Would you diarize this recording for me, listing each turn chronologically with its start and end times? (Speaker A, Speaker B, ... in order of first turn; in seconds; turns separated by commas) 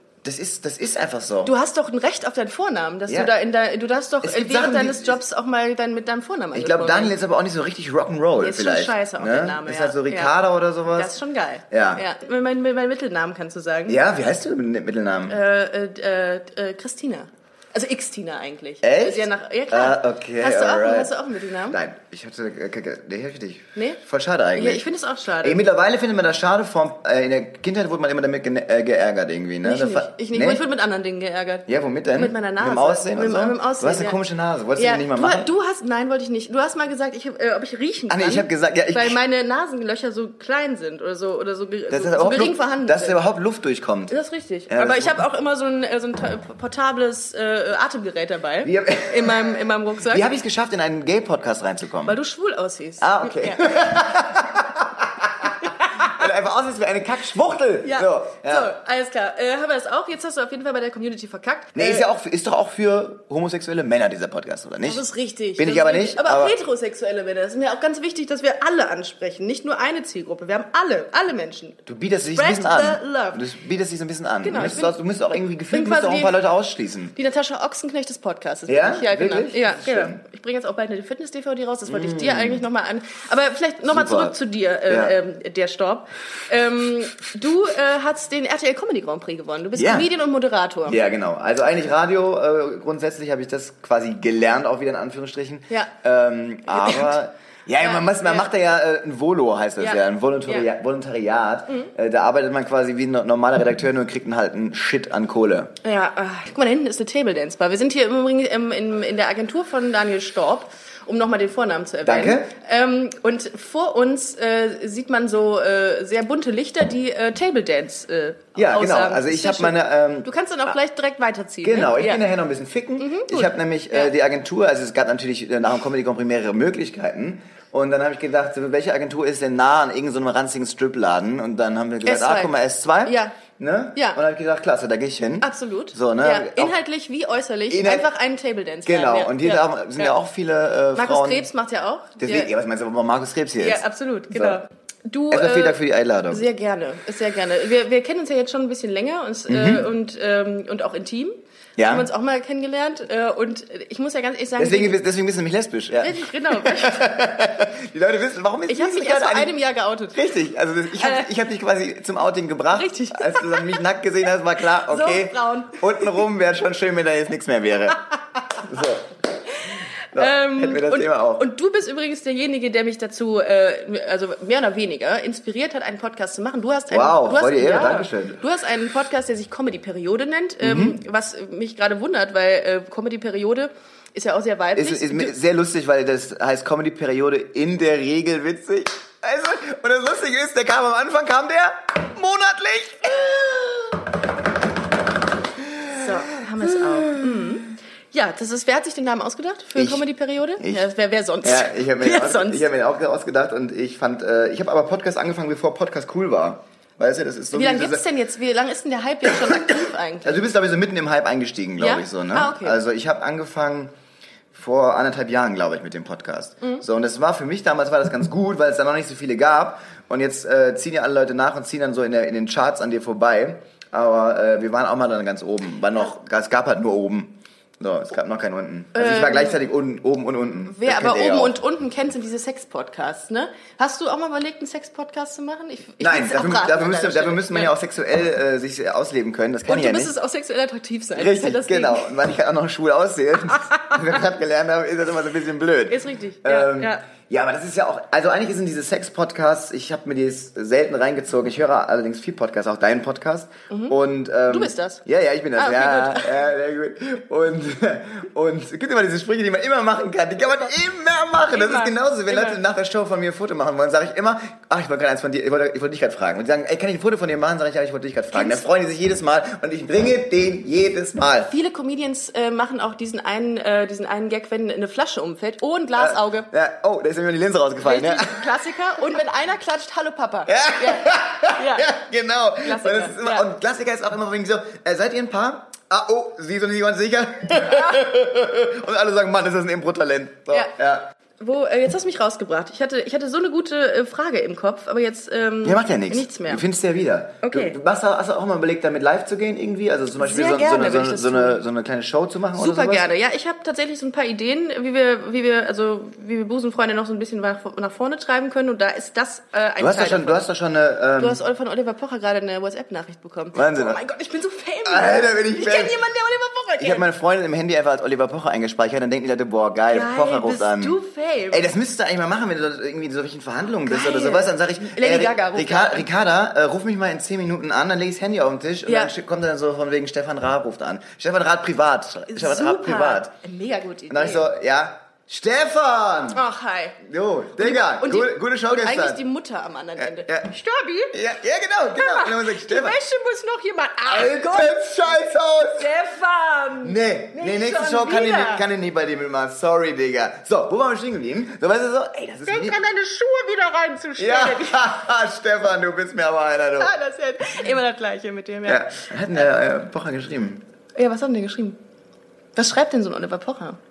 Speaker A: 0.2-1.5, Speaker B: 1.4-7.1, Speaker A: 3.1-3.3, Speaker A: 4.2-5.2, Speaker A: 6.5-11.1, Speaker B: 8.4-10.3, Speaker B: 10.9-14.0, Speaker A: 11.7-12.0, Speaker A: 13.9-15.4, Speaker B: 15.3-21.8, Speaker A: 18.8-21.2, Speaker A: 21.7-24.8, Speaker B: 24.6-25.6, Speaker A: 25.4-30.6, Speaker B: 29.6-34.2, Speaker A: 31.7-35.5, Speaker B: 34.8-43.2, Speaker A: 38.1-39.2, Speaker A: 41.9-44.1, Speaker B: 44.1-50.3, Speaker A: 44.7-45.2, Speaker A: 48.6-49.5, Speaker A: 50.1-52.2, Speaker B: 52.1-53.6, Speaker A: 53.0-58.7, Speaker B: 55.7-56.2, Speaker B: 57.8-62.1, Speaker A: 61.8-65.1, Speaker B: 64.8-71.8, Speaker A: 65.6-66.5, Speaker A: 71.9-77.2, Speaker B: 72.3-73.4, Speaker B: 74.4-75.0, Speaker B: 75.7-76.4, Speaker B: 77.2-91.0, Speaker A: 78.7-80.2, Speaker A: 81.9-82.7, Speaker A: 83.9-84.3, Speaker A: 84.9-85.2, Speaker A: 89.8-90.1, Speaker A: 90.9-105.7, Speaker B: 96.7-97.2, Speaker B: 97.8-98.5, Speaker B: 99.8-100.7, Speaker B: 105.8-122.2, Speaker A: 112.0-112.5, Speaker A: 118.6-120.3, Speaker A: 121.6-136.8, Speaker B: 123.0-124.1, Speaker B: 132.1-132.5, Speaker B: 133.0-133.4, Speaker B: 135.4-140.2, Speaker A: 137.7-138.1, Speaker A: 138.9-141.5, Speaker B: 141.0-142.5, Speaker A: 142.2-144.6, Speaker B: 143.6-155.0, Speaker A: 145.3-146.5, Speaker A: 149.5-149.9, Speaker A: 151.8-152.1, Speaker A: 154.6-159.5, Speaker B: 156.0-157.1, Speaker B: 158.7-160.2, Speaker A: 160.1-169.1, Speaker B: 161.0-161.3, Speaker B: 162.7-163.8, Speaker B: 164.8-166.2, Speaker B: 169.5-185.4, Speaker A: 170.1-171.5, Speaker A: 176.9-178.4, Speaker A: 180.6-181.0, Speaker A: 184.8-194.0, Speaker A: 195.7-197.6, Speaker B: 196.0-202.7, Speaker A: 199.8-200.0, Speaker A: 200.6-200.9, Speaker A: 201.4-208.1, Speaker B: 207.5-210.4, Speaker A: 209.2-213.9, Speaker B: 211.8-212.8, Speaker A: 214.5-231.6, Speaker B: 228.9-229.6, Speaker B: 230.7-237.7, Speaker A: 236.0-240.1, Speaker B: 239.7-242.1, Speaker A: 241.2-271.5, Speaker B: 243.7-244.0, Speaker B: 245.9-247.0, Speaker B: 253.7-254.0, Speaker B: 254.5-255.0, Speaker B: 255.6-256.4, Speaker B: 261.5-262.6, Speaker B: 268.3-268.6, Speaker B: 271.5-276.5, Speaker A: 276.0-278.6, Speaker B: 277.8-281.9, Speaker A: 280.5-291.1, Speaker B: 282.6-283.5, Speaker B: 287.6-288.0, Speaker B: 291.4-296.6, Speaker A: 295.6-303.1, Speaker B: 297.4-297.8, Speaker B: 300.2-301.6, Speaker B: 302.6-310.4, Speaker A: 309.8-311.4, Speaker B: 311.2-317.1, Speaker A: 313.5-314.0, Speaker A: 314.9-316.0, Speaker A: 316.8-321.0, Speaker B: 319.9-321.7, Speaker A: 321.5-333.3, Speaker B: 323.8-326.1, Speaker B: 328.9-329.1, Speaker B: 332.3-334.5, Speaker A: 334.1-336.4, Speaker B: 336.3-337.0, Speaker A: 337.0-339.2, Speaker B: 337.6-341.2, Speaker A: 340.0-340.5, Speaker A: 341.1-343.0, Speaker B: 341.9-344.8, Speaker A: 344.1-345.9, Speaker B: 345.8-348.6, Speaker A: 346.8-352.8, Speaker B: 352.5-354.8, Speaker A: 354.2-356.9, Speaker B: 356.8-358.9, Speaker A: 358.7-360.6, Speaker B: 361.0-361.8, Speaker B: 362.6-363.8